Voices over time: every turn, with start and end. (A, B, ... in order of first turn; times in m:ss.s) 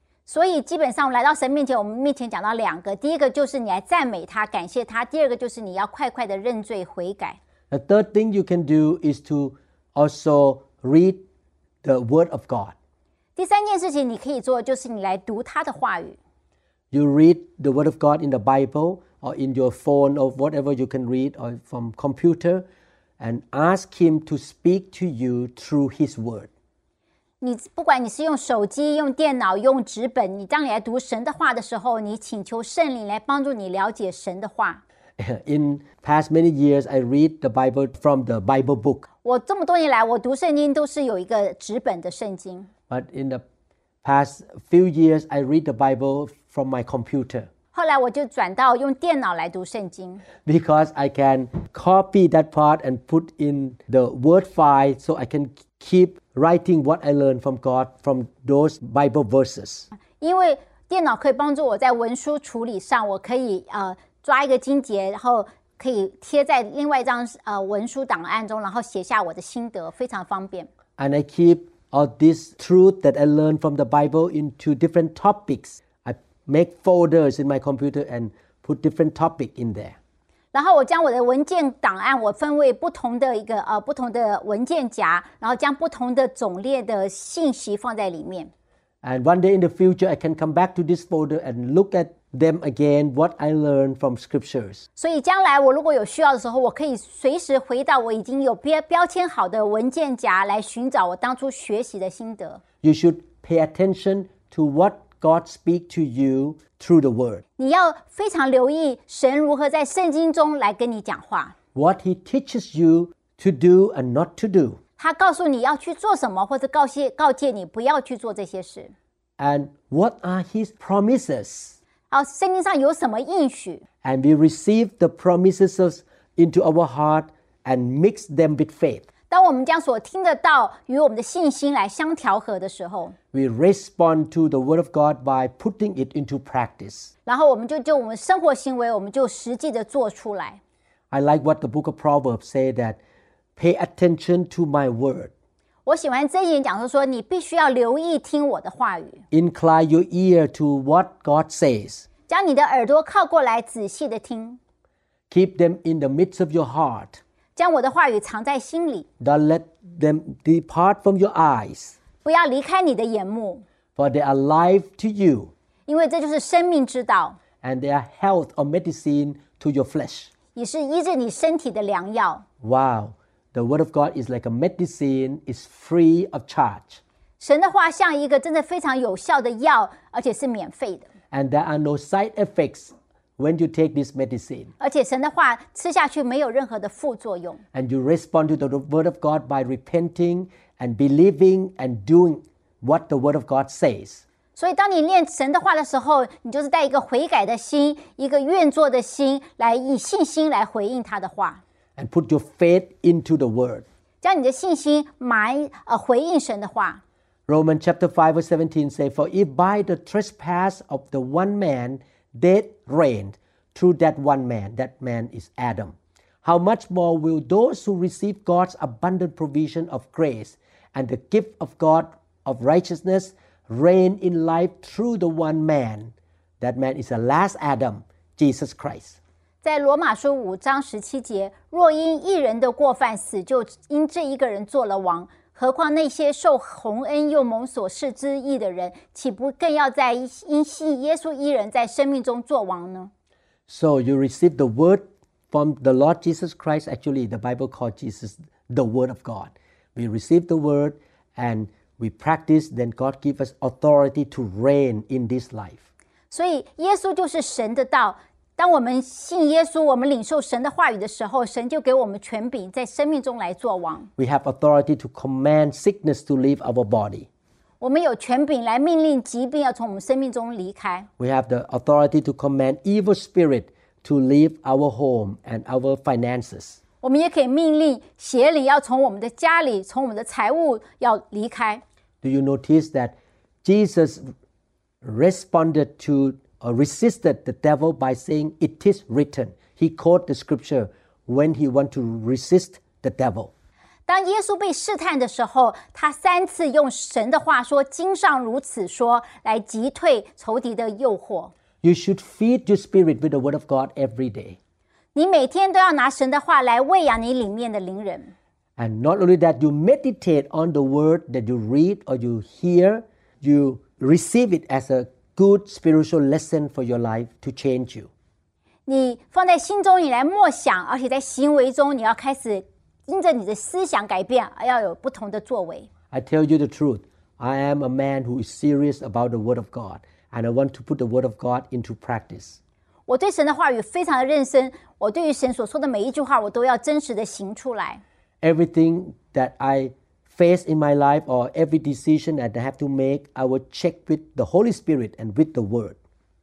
0:00.3-0:07.4 A
0:07.7-0:11.2 B
0:11.8-0:12.7 B
0:13.4-0:16.2 A
0:16.9-0:22.6 B
0:23.2-0:26.5 B
0:27.4-0:34.8 A
0:35.2-0:39.1 B
0:39.2-0:42.7 A
0:42.9-0:43.4 B
0:44.0-0:47.5 B
0:47.7-0:50.2 A
0:50.4-0:59.9 B
1:00.2-1:10.7 A
1:11.0-1:20.0 B
1:20.5-1:28.5 A
1:29.0-1:34.8 B
1:35.0-1:42.6 A
1:42.8-1:47.4 B
1:47.6-1:51.5 A
1:51.7-1:54.8 B
1:55.0-1:58.9 A
1:59.4-2:01.8 B
2:02.1-2:03.8 A
2:04.0-2:09.0 B
2:09.3-2:13.2 A
2:13.3-2:17.1 B
2:17.2-2:20.6 A
2:21.1-2:23.0 B
2:23.6-2:25.3 B
2:25.8-2:29.2 A
2:29.3-2:32.1 B
2:32.3-2:34.6 A
2:35.3-2:37.2 B
2:37.6-2:39.1 A
2:39.2-2:42.0 B
2:42.2-2:43.6 A
2:44.0-2:45.5 B
2:45.9-2:47.4 A
2:47.6-2:50.3 B
2:50.5-2:52.4 A
2:52.6-2:57.0 B
2:57.4-3:01.1 A
3:01.3-3:04.7 B
3:04.8-3:07.6 A
3:07.7-3:14.2 B
3:14.6-3:21.6 A
3:22.0-3:23.8 B
3:24.2-3:27.0 A
3:27.5-3:49.2 B
3:49.6-4:03.1 A
4:03.7-4:15.8 B
4:16.3-4:24.1 A
4:24.2-4:27.3 B
4:27.8-4:31.1 A
4:31.2-4:36.8 B
4:37.0-4:41.8 A
4:42.2-4:44.2 B
4:45.0-4:53.5 B
4:54.1-5:01.5 A
5:01.8-5:04.6 B
5:05.1-5:08.3 A
5:08.8-5:18.1 B
5:18.9-5:25.9 A
5:26.1-5:32.6 B
5:33.1-5:38.0 A
5:38.4-5:46.0 B